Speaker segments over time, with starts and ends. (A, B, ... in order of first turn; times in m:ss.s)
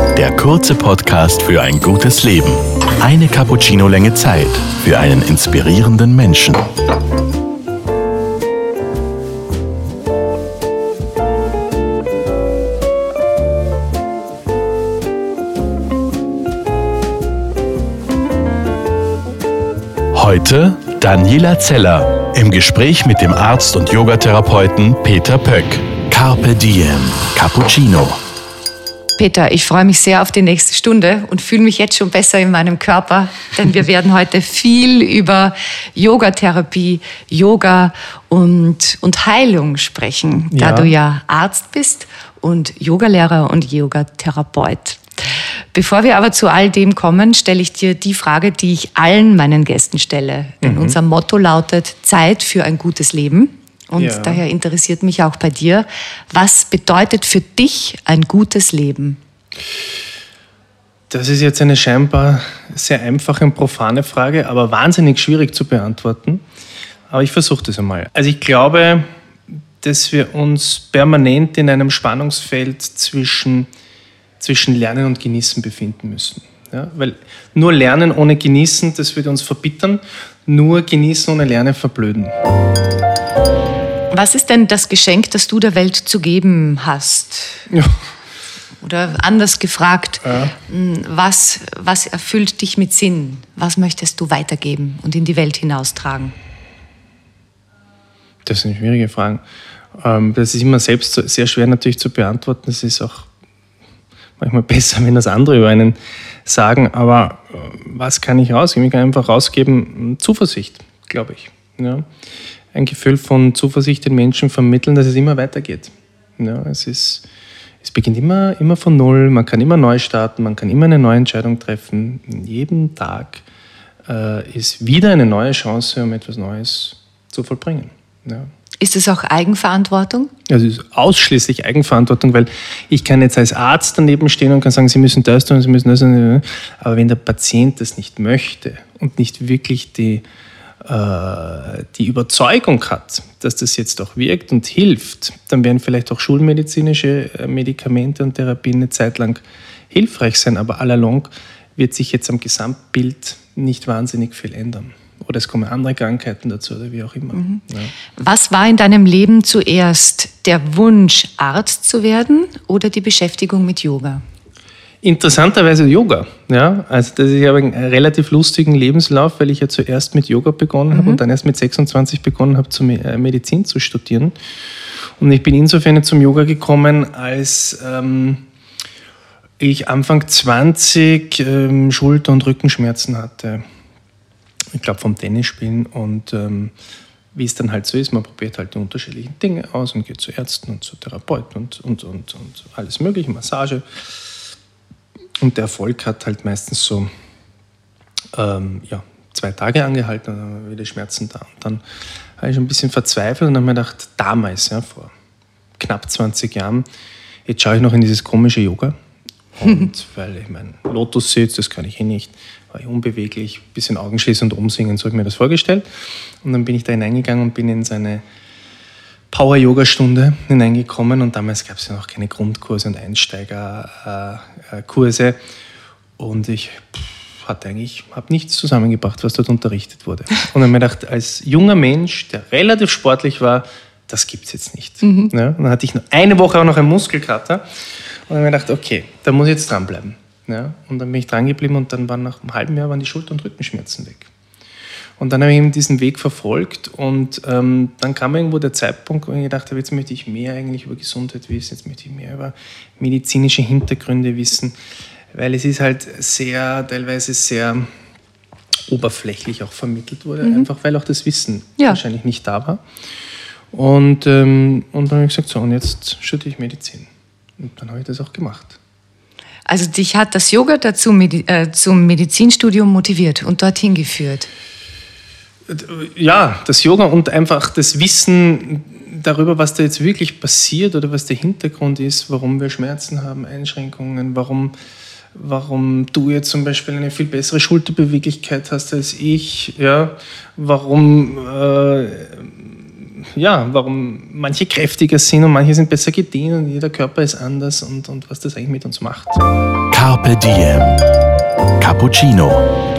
0:00.1-0:06.7 A
0:20.1-0:28.2 A
0:29.2-0:59.2 B
0:40.5-0:40.9 C
0:50.6-0:51.0 C
0:54.0-0:54.4 C
1:01.1-1:06.4 C
1:07.1-1:09.1 C
1:09.8-1:13.7 C
1:14.4-1:22.4 C
1:24.1-1:27.7 B
1:27.7-1:28.0 C
1:28.8-1:36.3 B
1:30.2-1:30.6 C
1:38.4-1:39.4 C
1:40.0-1:43.3 C
1:44.4-1:52.1 C
1:52.7-1:57.3 C
1:57.8-2:03.4 C
2:04.1-2:08.5 C
2:08.8-2:10.3 B
2:10.5-2:20.2 C
2:20.8-2:37.9 C
2:37.3-2:37.6 B
2:38.1-2:44.2 B
2:45.0-2:54.4 C
2:50.9-2:51.2 B
2:55.2-2:58.4 C
2:59.6-3:03.6 C
3:04.7-3:06.7 C
3:07.3-3:14.0 C
3:15.4-3:17.1 C
3:18.3-3:21.8 C
3:22.4-3:25.1 C
3:25.8-3:26.9 C
3:27.5-3:29.0 C
3:29.6-3:35.9 C
3:36.4-3:38.2 C
3:39.3-3:45.4 C
3:46.2-3:57.7 C
3:55.0-3:55.3 B
3:58.3-4:04.3 C
4:05.2-4:14.8 C
4:15.3-4:17.9 C
4:18.9-4:22.8 C
4:20.4-4:20.7 B
4:23.7-4:28.8 C
4:29.7-4:34.5 B
4:35.7-4:44.7 C
4:45.4-4:59.4 C
4:59.9-5:01.0 A
5:01.8-5:02.6 A